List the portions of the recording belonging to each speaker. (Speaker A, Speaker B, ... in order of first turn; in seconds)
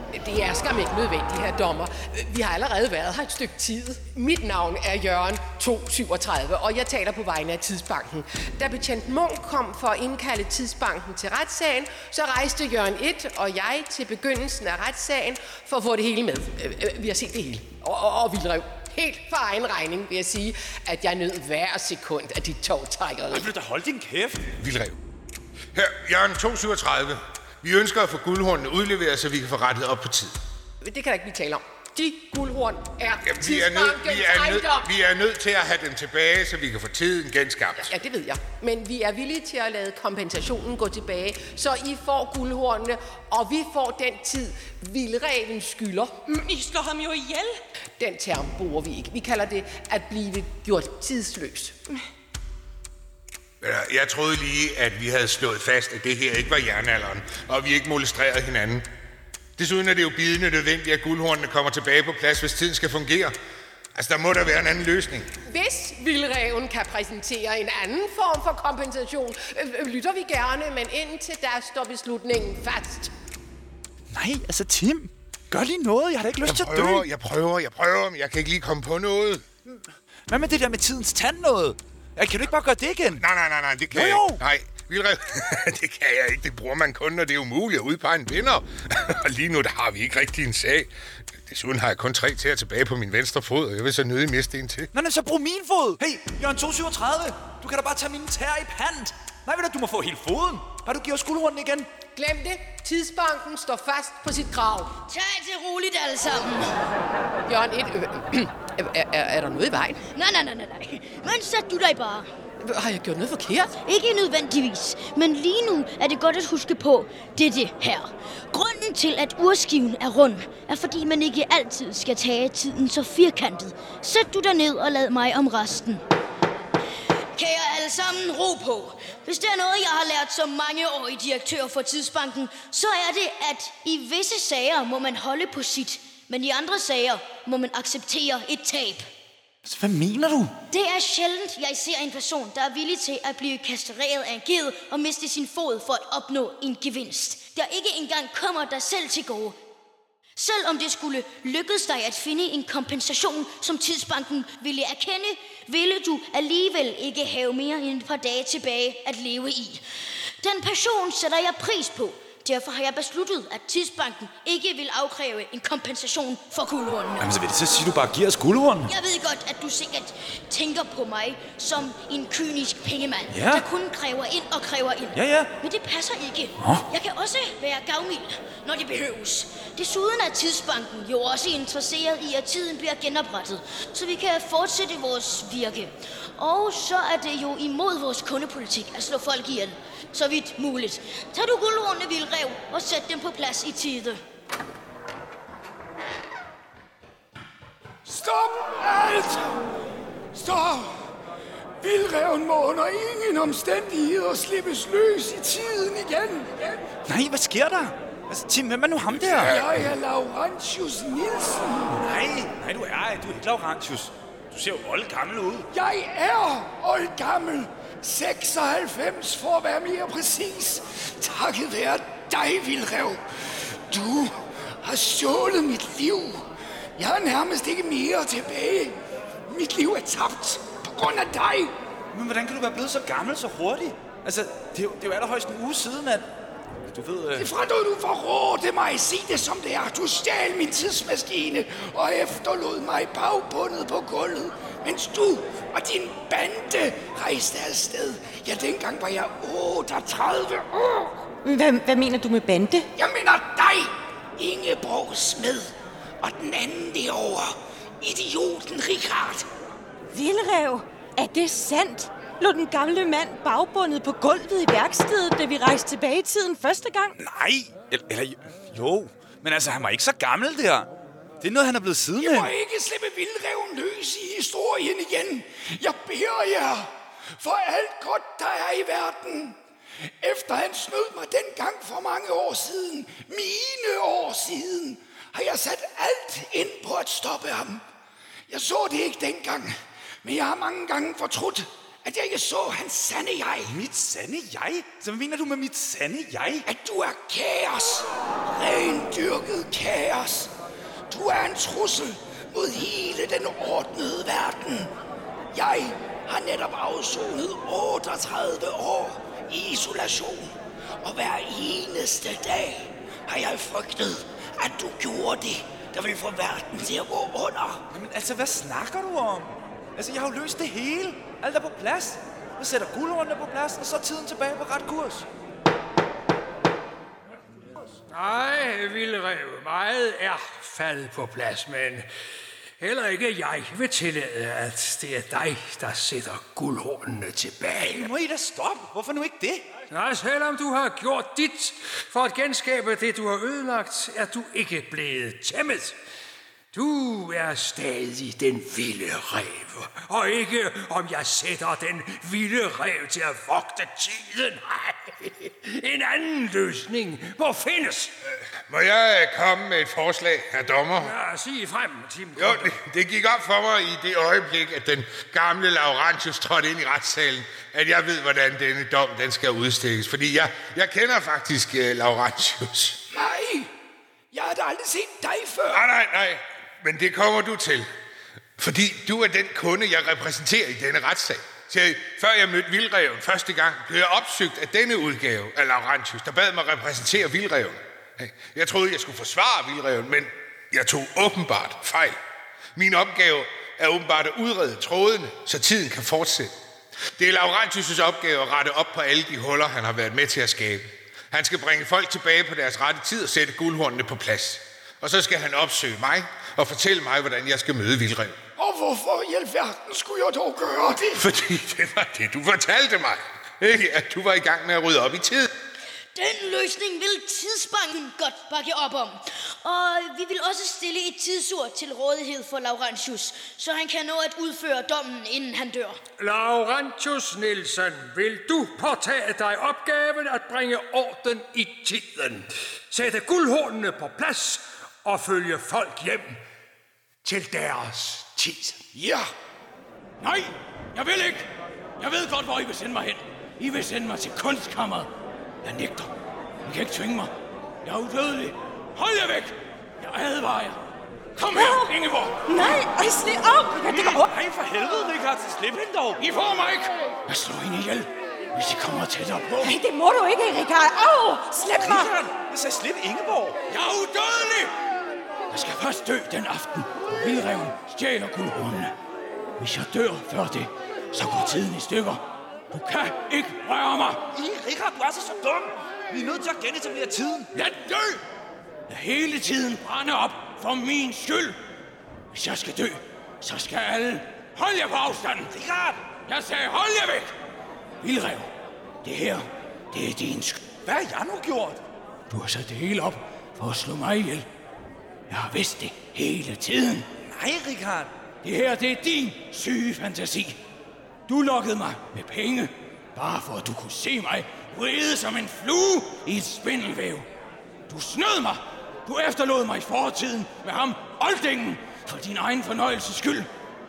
Speaker A: 0.1-23.5, 30.8-34.9, 37.8-46.2, 48.0-51.8, 65.5-73.1, 102.1-104.9, 107.5-110.0, 112.6-113.7
Speaker B: 23.3-24.4, 74.1-77.1, 80.3-83.2, 83.9-84.4, 94.9-101.9, 139.6-140.5, 167.2-168.9, 173.3-173.6, 175.1-175.5, 207.1-209.6, 211.9-215.7, 232.1-236.2, 236.9-237.5, 267.2-270.9, 271.4-272.5, 293.7-296.7, 317.9-325.2, 337.8-339.7, 453.9-456.2, 461.8-463.6, 474.3-477.5, 485.5-486.0, 490.8-491.8, 497.2-498.1
Speaker C: 24.6-25.0, 25.7-30.4, 33.2-37.9, 53.6-58.9, 59.6-63.3, 63.9-65.3, 76.4-79.5, 83.2-90.9, 91.5-94.9, 358.7-361.1, 362.4-373.0, 375.7-377.9, 378.6-392.2, 392.7-396.5, 397.2-408.4, 411.2-415.5
Speaker D: 46.2-47.6, 251.4-252.9, 260.1-267.1, 451.5-451.9, 452.4-454.3, 459.6-462.1
Speaker E: 105.1-106.8, 110.1-112.3, 113.8-126.0, 127.3-139.1, 140.7-149.6, 150.3-159.8, 160.4-167.3, 168.8-194.2, 416.1-426.0
Speaker F: 198.0-199.5, 200.3-201.0, 201.8-206.8, 209.1-211.9, 215.7-231.7, 237.3-251.1, 252.9-259.5, 272.2-279.6, 280.2-287.8, 288.5-293.8, 296.6-300.5, 301.1-304.9, 305.5-317.8, 373.1-373.7, 374.3-375.9, 408.6-411.2
Speaker G: 328.1-332.1, 332.8-338.1, 339.9-346.0, 346.7-358.1, 360.9-362.8, 426.2-436.4, 437.2-438.9
Speaker H: 440.2-441.5, 442.0-445.1, 445.6-446.1, 446.6-447.3, 447.8-450.8, 451.4-452.4, 456.2-459.7, 463.7-464.7, 465.5-468.9, 469.6-474.2, 477.5-478.2, 478.9-481.6, 482.3-485.5, 486.2-487.3, 488.0-488.5, 489.0-490.7, 492.3-494.4, 495.3-497.1, 498.4-500.6, 501.3-507.2, 507.9-513.5